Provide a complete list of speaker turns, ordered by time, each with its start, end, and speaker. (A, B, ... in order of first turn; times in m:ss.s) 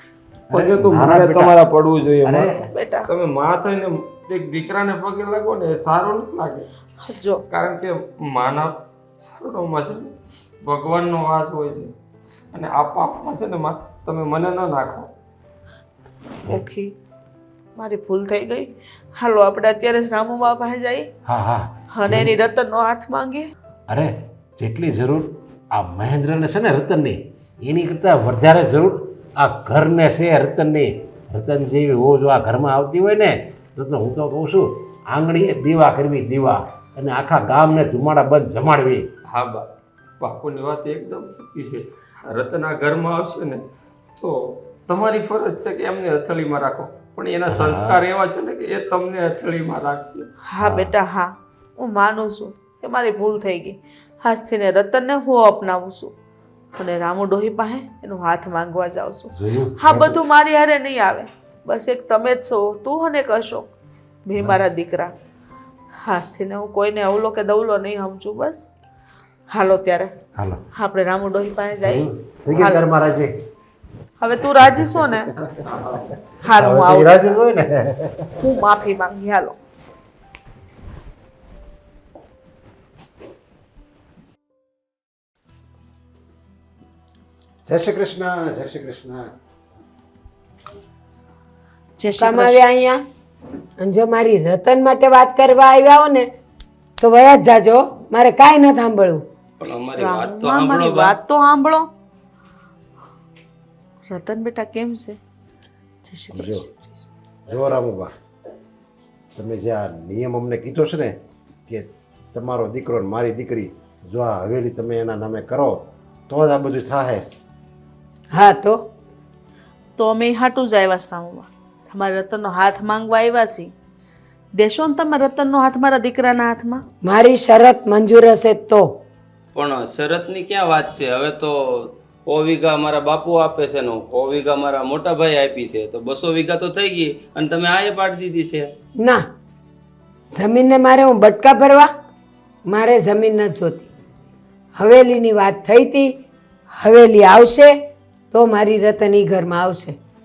0:00.5-0:01.5 A
0:00.5-0:06.7 B
0:02.2-0:02.6 A
0:02.7-0:03.1 C
0:07.0-0:07.4 C
0:07.5-0:10.1 B
0:10.6-0:11.9 B
0:12.5-0:15.1 B
0:16.5-0:16.9 C
0:17.8-0:21.1 C
0:21.2-0:22.3 A
0:21.9-0:23.4 C
0:23.9-0:39.0 A
0:39.3-0:39.6 B
0:40.2-0:43.6 B
0:44.2-0:50.3 B
0:47.5-0:48.0 A
0:50.5-0:56.1 C
0:50.6-0:50.9 A
0:56.8-1:03.7 C
0:59.3-1:00.2 A
1:04.2-1:05.1 C
1:06.0-1:08.7 C
1:09.5-1:10.1 C
1:10.7-1:12.0 C
1:11.8-1:13.3 A
1:12.5-1:12.8 C
1:14.2-1:15.3 C
1:14.6-1:16.0 A
1:16.4-1:17.4 C
1:16.6-1:18.5 A
1:18.4-1:19.6 C
1:27.7-1:29.2 A
1:32.0-1:32.6 C
1:32.2-1:33.0 D
1:33.8-1:36.3 D
1:37.0-1:39.2 D
1:39.6-1:41.2 B
1:40.0-1:41.9 C
1:44.1-1:45.2 C
1:46.0-1:47.0 C
1:46.3-1:46.6 A
1:47.5-1:48.1 A
1:49.4-1:51.1 A
1:51.7-1:57.2 A
1:58.3-1:58.8 D
2:00.0-2:03.7 C
2:04.6-2:06.8 C
2:07.0-2:08.9 D
2:09.5-2:18.7 B
2:19.0-2:19.2 D
2:20.3-2:21.9 D
2:22.7-2:23.9 D
2:24.8-2:26.1 D
2:26.7-2:27.8 D
2:28.3-2:30.0 D